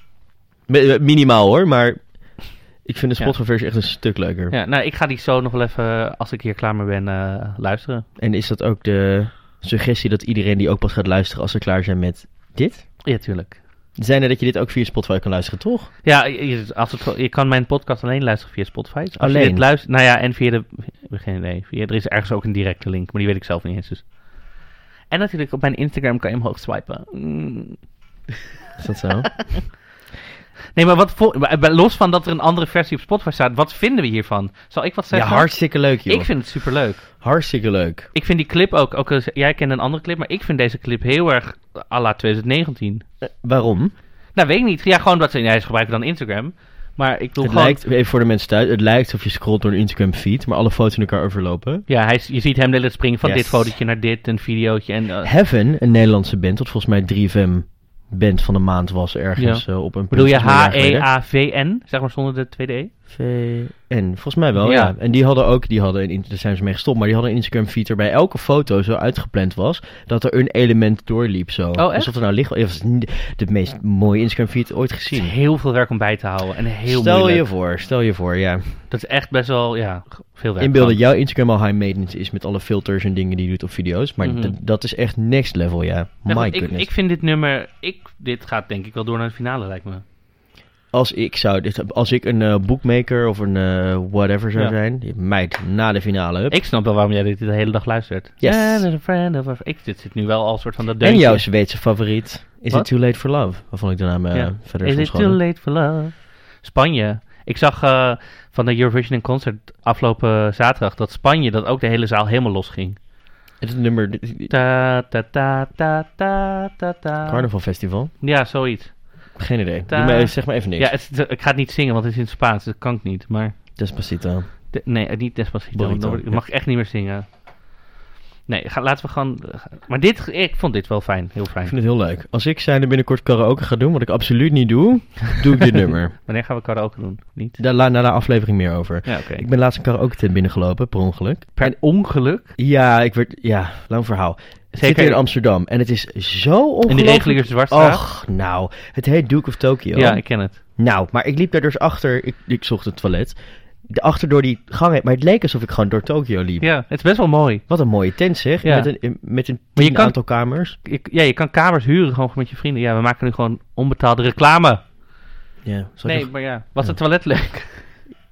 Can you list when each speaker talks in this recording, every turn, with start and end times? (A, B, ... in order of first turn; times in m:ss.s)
0:00.7-0:04.6 A
0:04.5-0:08.1 B
0:08.2-0:13.0 A
0:13.0-0:13.6 B
0:14.0-0:15.9 A
0:16.0-0:24.2 B
0:19.2-0:19.7 A
0:25.1-0:27.9 B
0:28.8-0:29.7 A
0:30.7-0:37.1 B
0:35.1-0:38.1 A
0:38.1-0:43.0 B
0:43.2-0:43.9 A
0:44.3-0:47.8 B
0:47.4-0:51.9 A
0:51.9-0:55.3 B
0:53.2-0:53.8 A
0:55.2-1:01.1 A
0:59.4-1:02.9 B
1:03.1-1:15.3 A
1:04.6-1:04.9 B
1:11.8-1:12.1 B
1:15.1-1:17.5 B
1:16.8-1:18.8 A
1:18.9-1:21.0 B
1:20.6-1:26.9 A
1:24.2-1:24.5 B
1:26.3-1:30.0 B
1:30.9-1:36.6 A
1:36.5-1:41.5 B
1:38.4-1:38.9 A
1:41.0-1:45.4 A
1:44.3-1:53.0 B
1:53.6-1:54.5 A
1:54.5-2:03.6 B
1:57.2-1:58.1 A
1:59.3-2:00.9 A
2:03.8-2:04.7 A
2:04.7-2:07.4 B
2:05.7-2:06.4 A
2:08.5-2:11.7 B
2:11.6-2:16.2 A
2:16.2-2:17.6 B
2:17.6-2:21.8 A
2:19.0-2:19.5 B
2:21.6-2:22.5 B
2:22.4-2:36.8 A
2:24.7-2:25.2 B
2:26.9-2:28.0 B
2:29.9-2:30.6 B
2:36.6-2:37.8 B
2:37.6-2:40.8 A
2:38.6-2:44.9 B
2:45.6-2:47.0 A
2:46.0-2:48.0 B